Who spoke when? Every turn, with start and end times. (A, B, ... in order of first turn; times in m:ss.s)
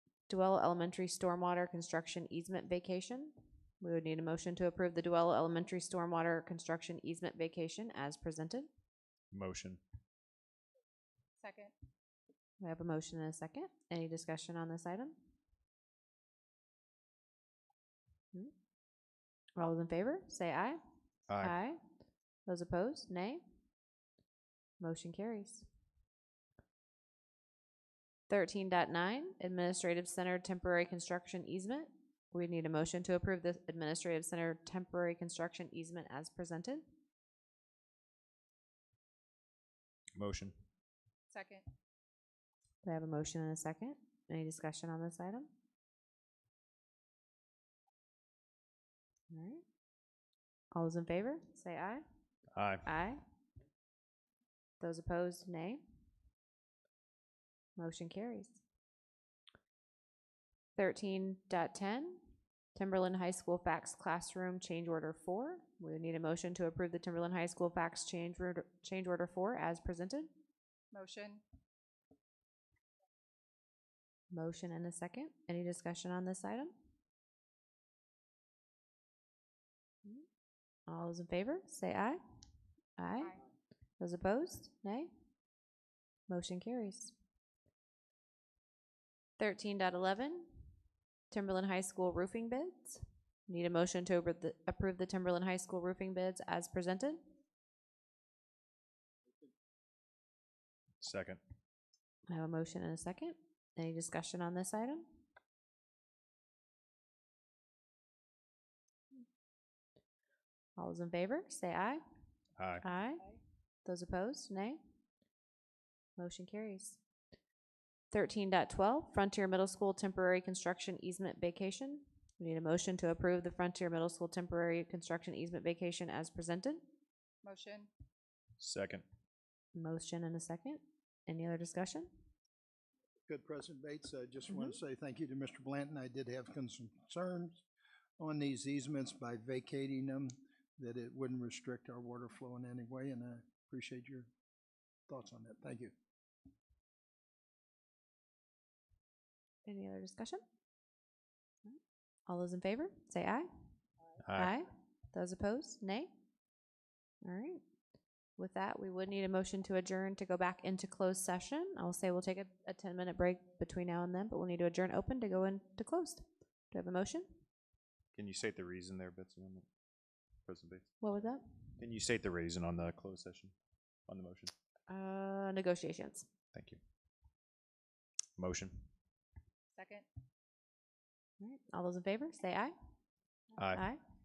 0:00.3-0:08.7 A
0:09.3-0:09.8 B
0:11.4-0:11.7 C
0:12.6-0:15.1 A
0:19.6-0:20.8 A
0:21.3-0:21.6 B
0:21.4-0:21.8 A
0:22.4-0:23.4 A
0:24.8-0:25.6 A
0:28.3-0:36.8 A
0:40.2-0:40.6 B
0:41.3-0:41.6 C
0:42.8-0:45.5 A
0:49.3-0:49.6 A
0:50.7-0:52.0 A
0:52.5-0:52.8 B
0:52.8-0:53.2 A
0:54.8-0:55.8 A
0:57.8-0:58.6 A
1:00.8-1:02.2 A
1:02.7-1:10.3 A
1:10.9-1:11.4 C
1:14.3-1:16.7 A
1:20.9-1:22.2 A
1:23.0-1:23.4 A
1:24.0-1:25.1 A
1:26.3-1:27.1 A
1:29.4-1:30.5 A
1:31.3-1:37.2 A
1:41.0-1:41.4 B
1:42.3-1:45.0 A
1:50.8-1:52.0 A
1:52.6-1:52.8 B
1:52.8-1:53.2 A
1:53.8-1:54.8 A
1:56.2-1:57.0 A
1:58.1-2:06.8 A
2:07.4-2:07.9 C
2:08.6-2:09.0 B
2:09.7-2:12.1 A
2:13.3-2:17.6 D
2:14.5-2:14.8 A
2:18.2-2:24.3 D
2:25.1-2:25.9 D
2:29.6-2:30.4 A
2:31.6-2:33.5 A
2:34.2-2:34.5 B
2:34.3-2:36.1 A
2:37.2-2:37.6 A
2:38.4-2:47.3 A
2:48.1-2:49.6 B
2:50.4-2:50.9 B
2:51.0-2:51.5 A
2:51.8-2:53.5 B
2:54.1-2:54.5 B
2:54.9-2:56.3 A
2:56.5-2:56.8 B
2:58.4-2:58.9 B
2:59.7-3:00.0 C
3:01.4-3:02.7 A
3:03.6-3:03.9 B
3:03.7-3:04.0 A